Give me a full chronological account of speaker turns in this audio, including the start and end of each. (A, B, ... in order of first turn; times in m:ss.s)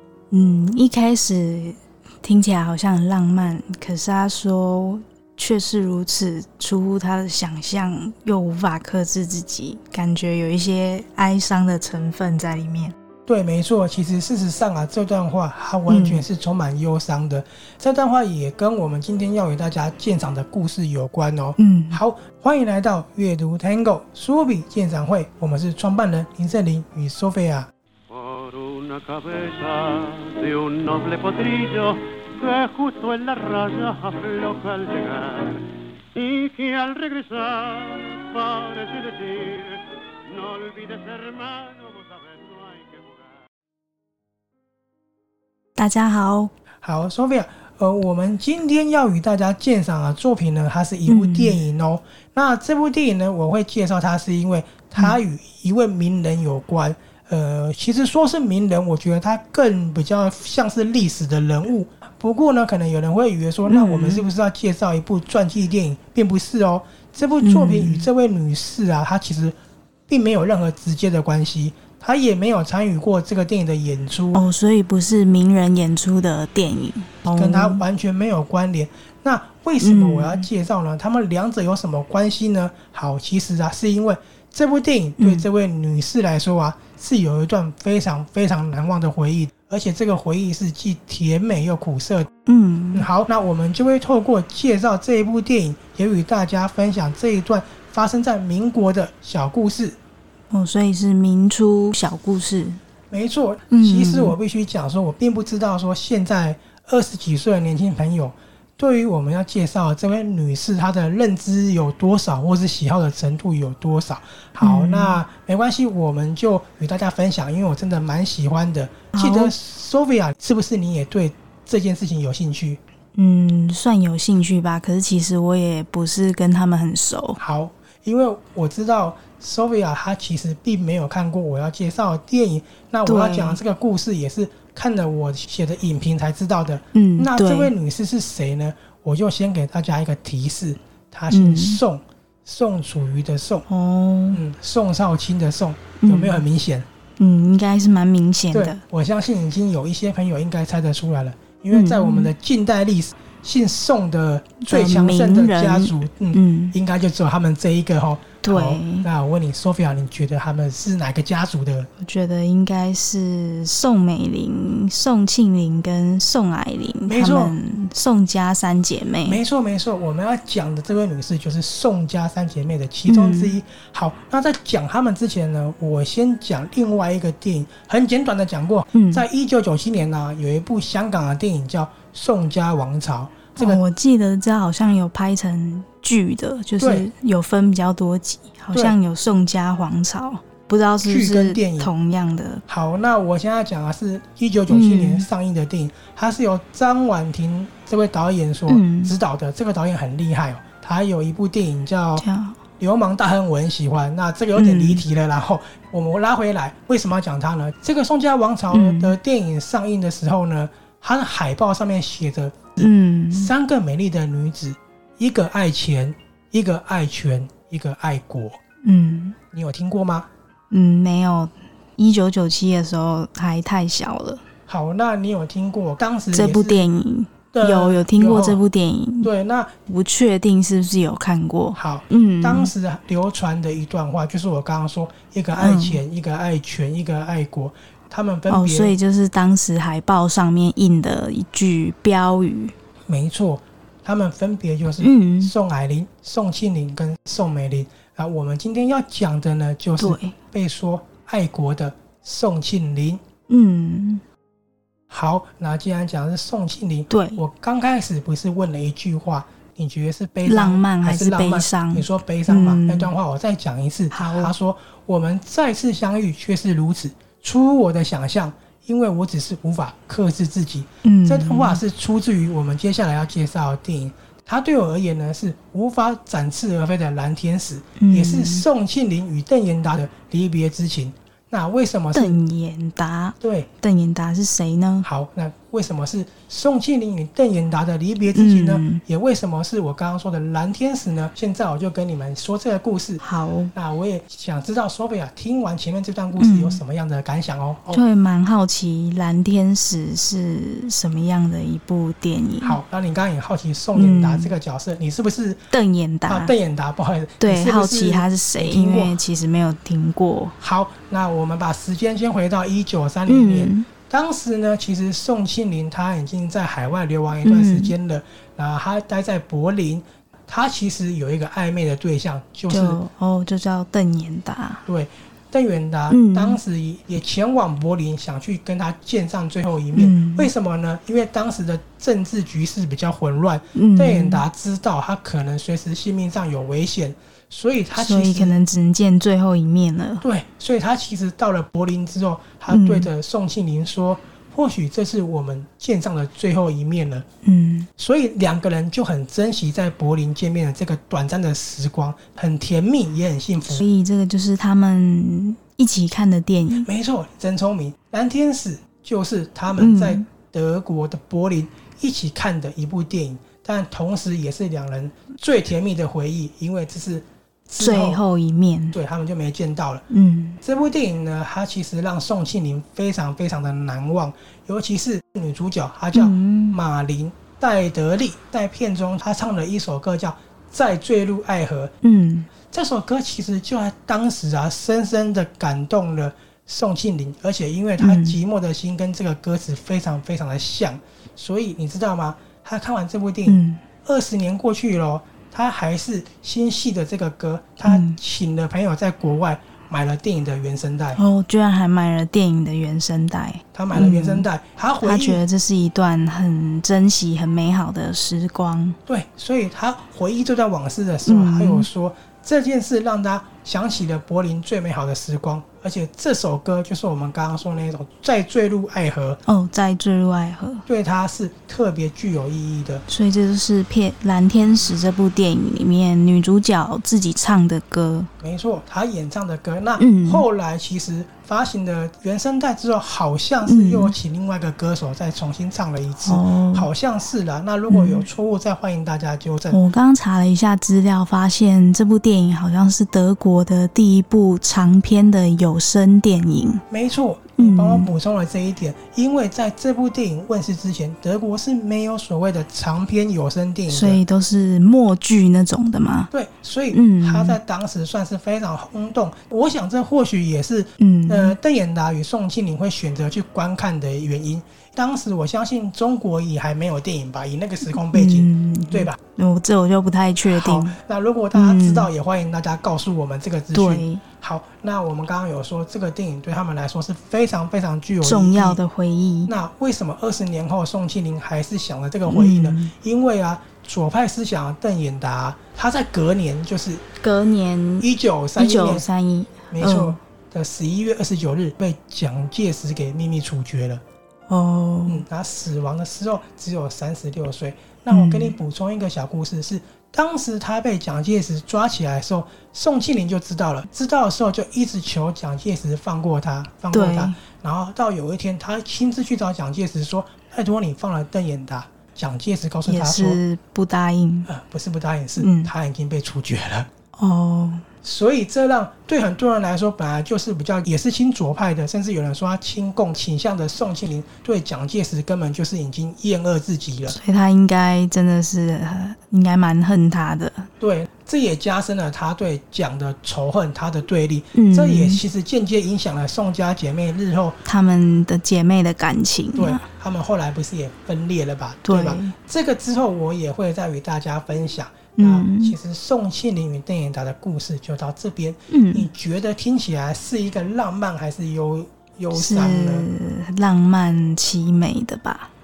0:00.3-0:12.9 A
0:13.3-0:27.7 B
0:15.9-0:16.2 A
0:21.6-0:22.0 A
0:28.1-0:43.4 C
0:45.8-0:46.5 A
0:46.8-1:09.6 B
0:51.1-0:51.6 A
1:03.7-1:04.2 A
1:07.4-1:08.1 A
1:10.1-1:14.4 B
1:14.3-1:17.8 A
1:17.3-1:32.3 B
1:19.8-1:20.5 A
1:25.2-1:25.4 A
1:32.4-1:33.1 A
1:32.9-1:40.0 B
1:40.5-1:42.8 A
1:43.1-2:02.8 B
1:43.7-1:44.4 A
1:54.6-1:55.2 A
1:59.1-1:59.5 A
2:03.1-2:07.4 A
2:07.4-2:23.6 B
2:13.0-2:13.6 A
2:16.9-2:17.7 A
2:21.3-2:21.8 A
2:23.7-2:24.4 A
2:24.3-2:26.9 B
2:26.0-2:26.4 A
2:27.2-2:28.8 A
2:28.5-2:41.9 B
2:31.7-2:32.3 A
2:34.6-2:36.7 A
2:38.4-2:39.1 A
2:42.0-2:49.4 A
2:47.1-2:47.5 B
2:49.3-3:03.8 B
2:53.1-2:53.6 A
2:58.9-2:59.2 A
3:03.6-3:12.6 A
3:06.8-3:07.1 B
3:11.0-3:11.9 B
3:12.7-3:22.2 B
3:14.7-3:15.3 A
3:18.7-3:19.1 A
3:22.2-3:22.6 A
3:22.8-3:38.6 B
3:24.5-3:25.0 A
3:28.7-3:29.2 A
3:32.8-3:33.5 A
3:38.8-3:39.4 A
3:39.5-3:40.3 B
3:40.7-3:44.4 A
3:44.7-3:46.8 B
3:46.3-3:49.3 A
3:47.5-3:48.6 B
3:49.2-3:49.7 B
3:49.9-3:52.7 A
3:51.7-3:58.9 B
3:55.5-3:56.0 A
3:58.5-4:02.7 A
4:03.1-4:13.2 B
4:05.0-4:05.5 A
4:10.0-4:10.4 A
4:13.5-4:14.2 A
4:15.1-4:42.4 B
4:17.1-4:17.4 A
4:20.4-4:23.1 A
4:24.1-4:24.5 A
4:31.0-4:31.8 A
4:38.0-4:38.6 A
4:42.1-4:45.1 A
4:43.4-4:43.7 B
4:45.0-4:58.0 B
4:48.3-4:49.0 A
4:53.2-4:53.7 A
4:56.4-4:56.8 A
4:57.9-5:02.8 A
5:02.6-5:05.7 B
5:03.9-5:04.5 A
5:05.7-5:06.5 A
5:06.2-5:09.2 B
5:07.4-5:10.6 A
5:10.6-5:23.0 B
5:13.3-5:13.9 A
5:17.4-5:17.9 A
5:22.7-5:24.8 A
5:24.8-5:38.6 B
5:26.1-5:26.6 A
5:29.9-5:30.5 A
5:33.7-5:34.4 A
5:37.9-5:40.2 A
5:40.2-5:47.3 B
5:42.7-5:43.1 A
5:47.4-5:47.9 A
5:48.0-5:53.8 B
5:53.7-5:56.9 A
5:56.8-6:08.2 B
5:59.7-6:00.2 A
6:07.8-6:08.9 A
6:08.9-6:10.0 B
6:10.1-6:10.6 A
6:10.6-6:21.9 B
6:16.1-6:16.8 A
6:22.0-6:22.5 A
6:22.7-6:41.2 B
6:28.0-6:28.4 A
6:33.4-6:33.8 A
6:37.8-6:38.2 A
6:41.2-6:44.5 A
6:43.7-6:45.4 B
6:45.0-6:49.0 A
6:49.0-6:59.4 B
6:51.2-6:51.9 A
6:59.4-7:00.8 A
7:00.8-7:03.0 B
7:03.1-7:08.3 A
7:08.4-7:19.8 B
7:10.0-7:10.4 A
7:13.6-7:14.2 A
7:16.2-7:16.9 A
7:17.9-7:18.2 A
7:19.7-7:26.8 A
7:26.9-7:34.2 B
7:27.6-7:28.1 A
7:33.9-7:36.3 A
7:36.3-7:49.2 B
7:36.9-7:37.6 A
7:41.0-7:41.6 A
7:48.0-7:51.0 A
7:50.4-7:58.8 B
7:51.5-7:52.1 A
7:53.7-7:54.2 A
7:58.2-7:59.5 A
7:59.5-8:07.0 B
8:02.3-8:02.9 A
8:07.2-8:10.2 A
8:08.0-8:09.0 B
8:09.7-8:14.0 B
8:14.5-8:15.2 A
8:15.0-8:33.4 B
8:18.1-8:18.5 A
8:26.9-8:27.4 A
8:32.9-8:34.5 A
8:34.4-8:36.9 B
8:35.4-8:35.7 A
8:37.2-8:37.8 A
8:38.0-8:47.2 B
8:47.1-8:50.7 A
8:50.8-8:57.6 B
8:54.5-8:55.2 A
8:57.6-8:59.8 A
8:59.5-9:13.1 B
9:01.8-9:02.3 A
9:05.2-9:05.8 A
9:08.7-9:09.1 A
9:12.3-9:15.5 A